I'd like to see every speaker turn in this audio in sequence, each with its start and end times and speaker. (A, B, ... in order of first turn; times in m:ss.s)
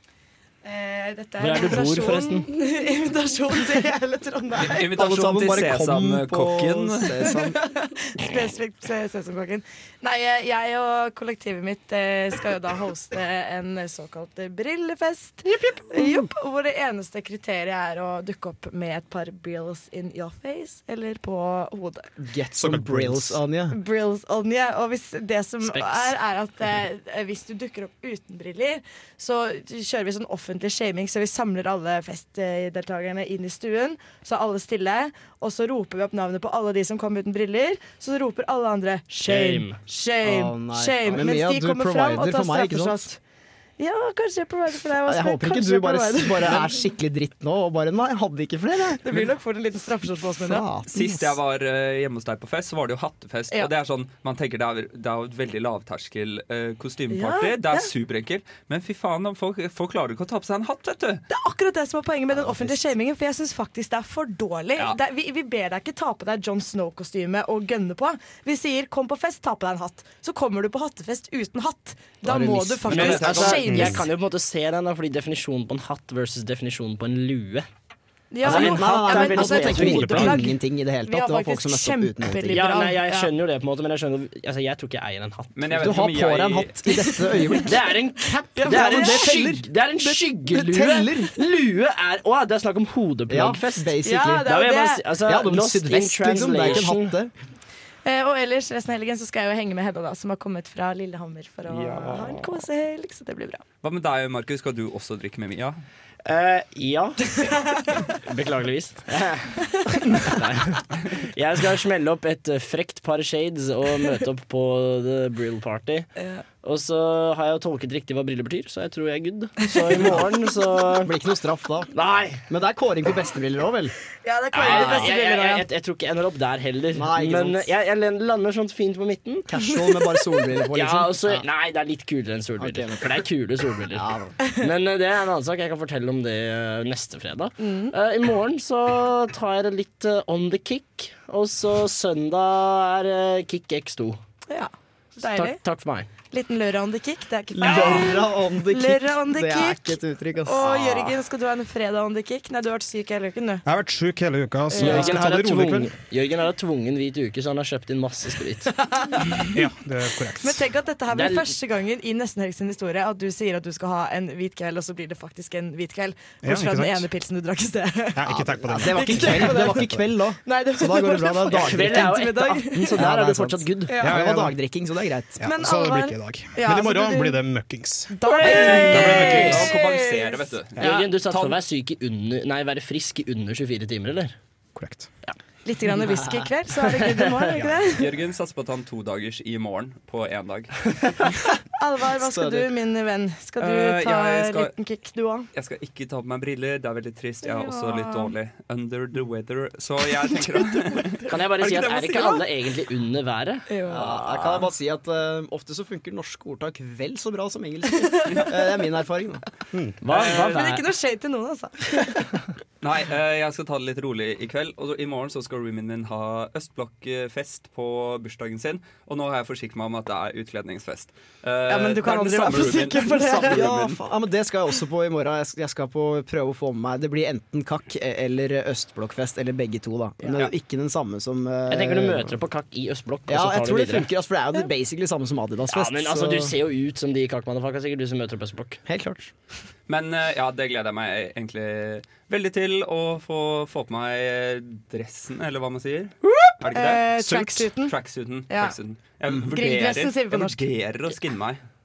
0:00.6-0:04.9 A
0:01.4-0:02.5 B
0:04.6-0:07.3 C
0:04.9-0:07.6 D
0:07.2-0:22.1 A
0:22.2-0:23.8 D
0:22.6-0:23.4 E
0:23.7-0:43.2 A
0:25.6-0:26.2 B
0:39.2-0:39.8 B
0:40.2-0:43.1 D
0:43.8-0:46.7 A
0:45.0-0:49.0 D
0:49.0-0:50.6 A
0:50.4-0:51.4 D
0:50.9-1:01.2 C
0:57.1-0:57.9 A
1:01.3-1:14.1 A
1:02.3-1:02.8 D
1:12.2-1:13.8 D
1:12.8-1:17.7 B
1:13.6-1:14.0 E
1:18.3-1:23.3 A
1:18.4-1:20.4 B
1:18.4-1:22.7 D
1:19.8-1:20.5 E
1:22.5-1:26.1 B
1:25.5-1:27.0 C
1:25.7-1:28.0 D
1:27.6-1:37.2 B
1:28.5-1:31.4 D
1:28.6-1:29.5 A
1:33.3-1:34.5 D
1:34.0-1:35.1 A
1:35.2-1:37.3 D
1:38.0-1:43.6 A
1:41.7-1:42.5 C
1:43.8-1:45.8 C
1:46.2-1:47.4 B
1:47.3-1:48.2 A
1:48.2-1:56.1 B
1:49.7-1:50.2 A
1:56.2-1:56.4 A
1:56.6-2:01.1 B
2:01.0-2:01.9 D
2:01.9-2:02.4 B
2:02.5-2:03.9 D
2:04.2-2:05.6 A
2:04.5-2:09.5 B
2:04.7-2:05.1 D
2:06.9-2:07.7 D
2:09.5-2:11.4 D
2:09.7-2:10.5 A
2:10.7-2:24.2 B
2:12.6-2:13.3 D
2:13.9-2:14.3 D
2:17.6-2:17.9 A
2:24.5-2:25.6 A
2:25.2-2:26.1 B
2:26.3-2:33.6 A
2:27.5-2:30.7 D
2:30.6-2:31.2 B
2:33.6-2:36.0 E
2:34.7-2:35.2 A
2:34.8-2:38.7 B
2:38.7-2:39.6 A
2:39.5-2:40.7 E
2:40.4-2:48.3 A
2:41.1-2:41.5 B
2:46.4-2:47.1 E
2:48.2-2:50.0 E
2:48.2-2:55.4 D
2:48.8-2:53.1 A
2:51.5-2:54.0 B
2:53.9-2:54.2 A
2:54.0-2:54.6 E
2:55.4-2:58.3 E
2:55.4-2:57.4 A
2:58.1-3:01.1 A
2:58.3-2:59.7 B
2:58.4-3:01.6 C
3:00.8-3:04.3 B
3:04.8-3:05.1 E
3:05.6-3:08.1 A
3:06.8-3:07.5 B
3:07.9-3:10.9 C
3:11.8-3:15.5 A
3:12.2-3:12.7 D
3:13.6-3:14.7 C
3:15.5-3:22.4 C
3:17.4-3:18.3 A
3:21.3-3:24.6 B
3:23.7-3:24.1 A
3:23.9-3:29.8 D
3:27.9-3:28.5 A
3:30.0-3:30.8 B
3:30.1-3:32.2 A
3:32.8-3:44.0 C
3:41.7-3:43.7 A
3:43.5-3:52.4 D
3:51.7-3:54.1 B
3:53.3-3:56.6 D
3:55.7-3:58.8 B
3:58.8-3:59.3 D
3:59.9-4:11.6 C
4:06.3-4:08.0 A
4:08.5-4:08.8 A
4:09.4-4:10.7 A